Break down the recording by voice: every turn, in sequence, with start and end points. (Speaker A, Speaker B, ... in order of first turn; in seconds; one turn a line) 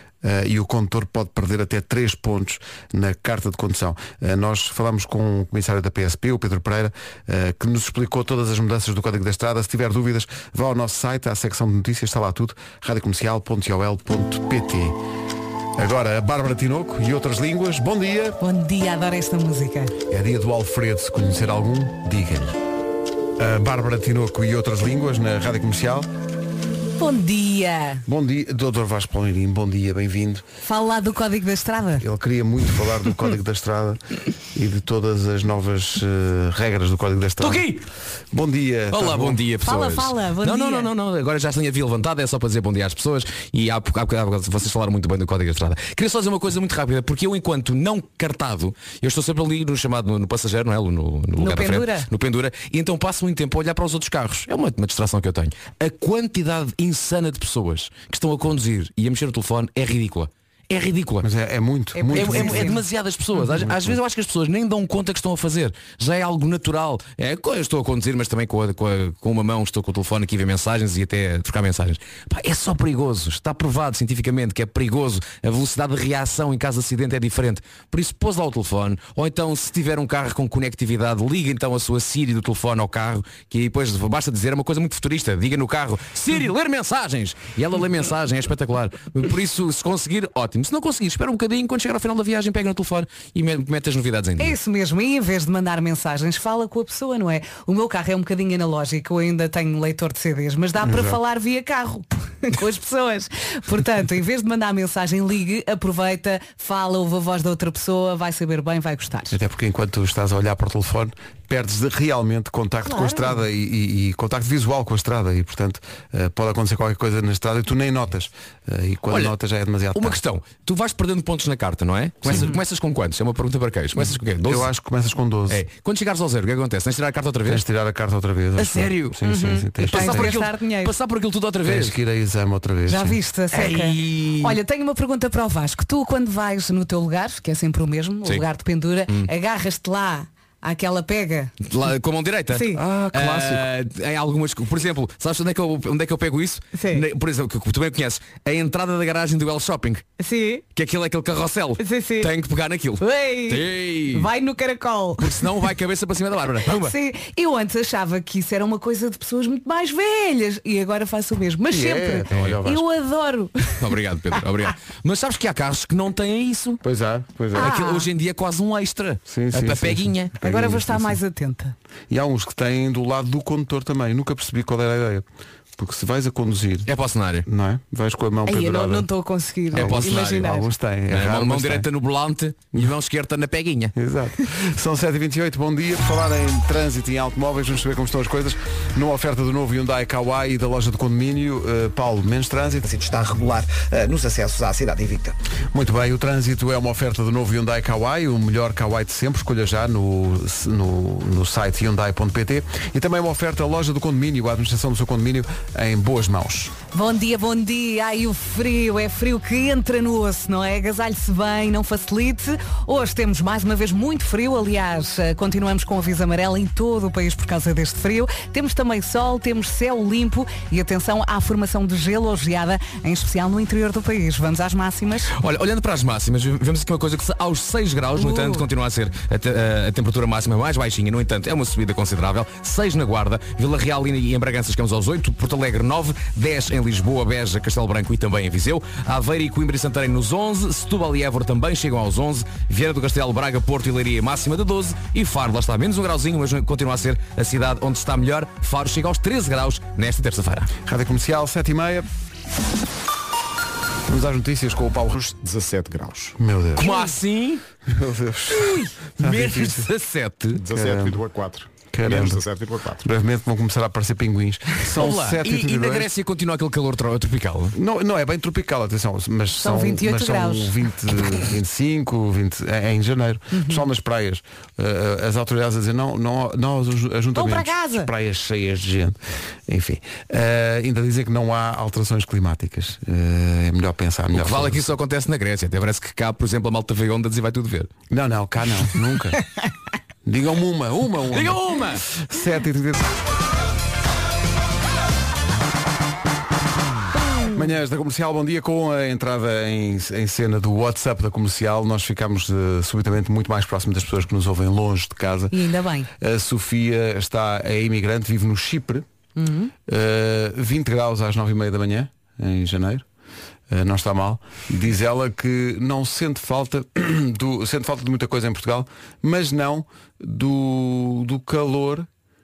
Speaker A: 0.2-15.0
Speaker A: 15.8-18.4
Speaker B: 18.4-19.9
Speaker A: 20.1-22.6
Speaker A: 23.4-26.1
Speaker B: 27.0-28.0
Speaker A: 28.1-30.4
Speaker B: 30.6-32.0
Speaker A: 32.0-34.0
Speaker A: 34.5-37.7
Speaker C: 37.4-37.8
Speaker A: 38.3-39.4
Speaker C: 38.9-61.3
Speaker B: 39.6-40.9
Speaker B: 51.4-52.1
Speaker A: 61.2-62.8
Speaker B: 61.9-62.8
Speaker C: 62.1-94.6
Speaker A: 63.5-64.0
Speaker B: 94.4-109.4
Speaker A: 100.8-101.2
Speaker A: 109.3-120.2
Speaker B: 112.8-113.4
Speaker C: 119.1-119.3
Speaker C: 119.9-124.7
Speaker A: 124.4-125.6
Speaker C: 125.5-127.6
Speaker A: 127.4-130.3
Speaker C: 128.6-129.2
Speaker B: 129.2-130.9
Speaker C: 129.8-131.9
Speaker A: 131.6-133.2
Speaker B: 132.9-141.5
Speaker C: 133.5-134.6
Speaker C: 141.6-150.1
Speaker B: 142.5-142.8
Speaker A: 142.8-143.7
Speaker B: 146.7-147.0
Speaker B: 150.2-150.6
Speaker C: 150.7-154.3
Speaker B: 151.8-152.3
Speaker B: 153.0-155.5
Speaker C: 155.2-156.9
Speaker B: 156.7-163.8
Speaker A: 161.7-162.8
Speaker C: 162.3-162.6
Speaker C: 163.8-166.8
Speaker A: 166.8-167.7
Speaker C: 167.5-170.3
Speaker B: 167.6-168.1
Speaker A: 169.3-171.2
Speaker B: 170.4-171.7
Speaker A: 172.1-175.2
Speaker A: 175.8-176.9
Speaker C: 176.9-177.4
Speaker A: 177.4-179.1
Speaker B: 178.4-180.7
Speaker C: 179.7-180.5
Speaker A: 179.7-181.9
Speaker C: 181.1-183.9
Speaker A: 183.9-192.9
Speaker D: 192.9-195.3
Speaker A: 195.7-206.7
Speaker B: 206.9-225.3
Speaker C: 225.3-250.7
Speaker B: 228.2-228.6
Speaker A: 250.8-252.1
Speaker A: 254.1-255.4
Speaker E: 255.3-256.4
Speaker A: 256.4-256.9
Speaker C: 256.8-257.6
Speaker B: 256.8-257.1
Speaker A: 257.9-259.9
Speaker C: 258.5-260.6
Speaker E: 260.5-263.0
Speaker A: 260.7-261.2
Speaker A: 261.9-262.4
Speaker A: 263.0-266.1
Speaker C: 264.9-267.7
Speaker A: 267.7-284.8
Speaker B: 269.6-270.8
Speaker B: 273.5-273.8
Speaker B: 277.3-278.1
Speaker C: 284.3-287.9
Speaker A: 288.1-289.4
Speaker A: 290.2-293.1
Speaker C: 291.3-292.0
Speaker A: 297.5-305.6
Speaker B: 305.5-306.1
Speaker A: 306.1-309.1
Speaker B: 309.4-309.7
Speaker A: 309.9-313.0
Speaker A: 313.7-322.1